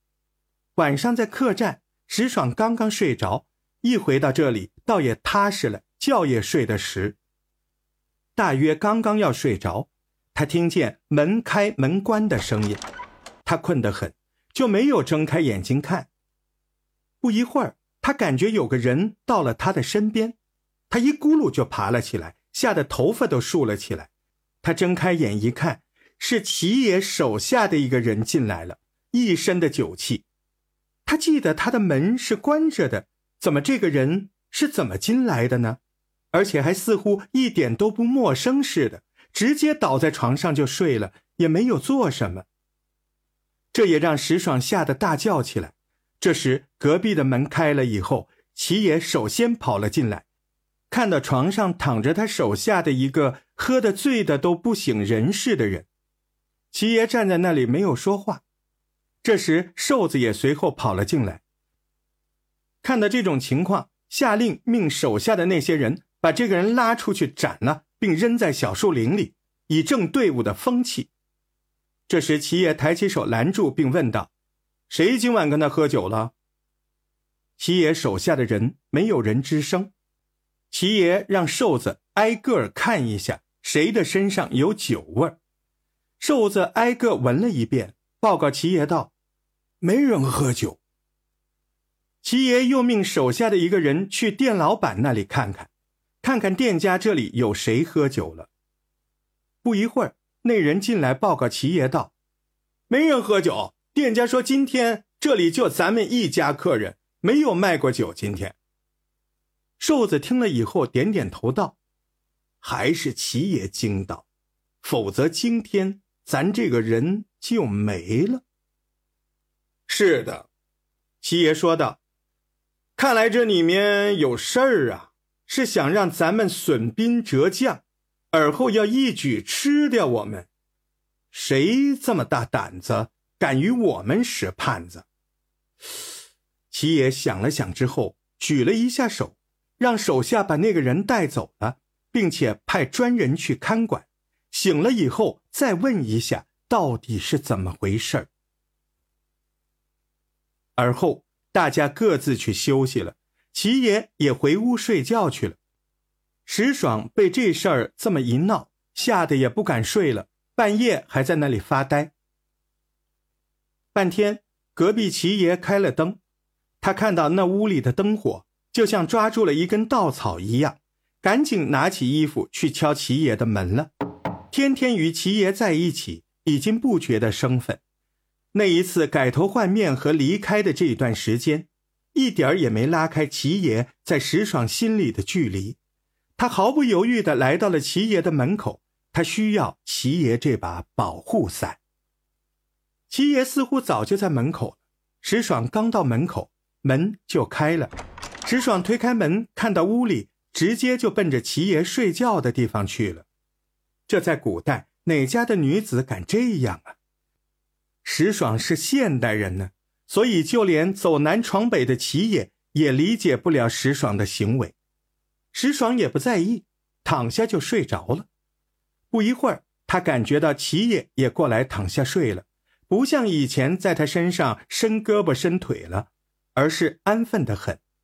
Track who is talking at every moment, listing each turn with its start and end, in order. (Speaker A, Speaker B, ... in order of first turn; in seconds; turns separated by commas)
Speaker A: 0.8-7.2, Speaker A: 8.3-12.8, Speaker A: 13.4-16.1, Speaker A: 17.2-20.4, Speaker A: 20.9-24.1, Speaker A: 24.6-30.2, Speaker A: 31.1-35.8, Speaker A: 36.3-42.5, Speaker A: 43.7-50.2, Speaker A: 50.9-55.9, Speaker A: 56.7-58.4, Speaker A: 59.2-61.4, Speaker A: 62.8-71.1, Speaker A: 72.1-74.3, Speaker A: 74.9-76.3, Speaker A: 77.6-79.9, Speaker A: 80.7-85.4, Speaker A: 86.2-89.1, Speaker A: 89.8-90.8, Speaker A: 92.2-95.7, Speaker A: 96.2-98.5, Speaker A: 99.6-102.1, Speaker A: 102.9-108.6, Speaker A: 109.8-111.8, Speaker A: 112.6-114.2, Speaker A: 114.8-118.4, Speaker A: 119.9-120.5, Speaker A: 121.2-122.0, Speaker A: 123.0-130.5, Speaker A: 131.3-135.1, Speaker A: 136.7-148.3, Speaker A: 150.8-155.6, Speaker A: 156.4-162.1, Speaker A: 163.9-166.2, Speaker A: 166.8-173.9, Speaker A: 174.5-177.8, Speaker A: 178.5-185.8, Speaker A: 186.4-191.8, Speaker A: 193.1-197.9, Speaker A: 198.4-203.2, Speaker A: 204.1-207.0, Speaker A: 208.0-214.7, Speaker A: 215.5-218.3, Speaker A: 219.1-227.8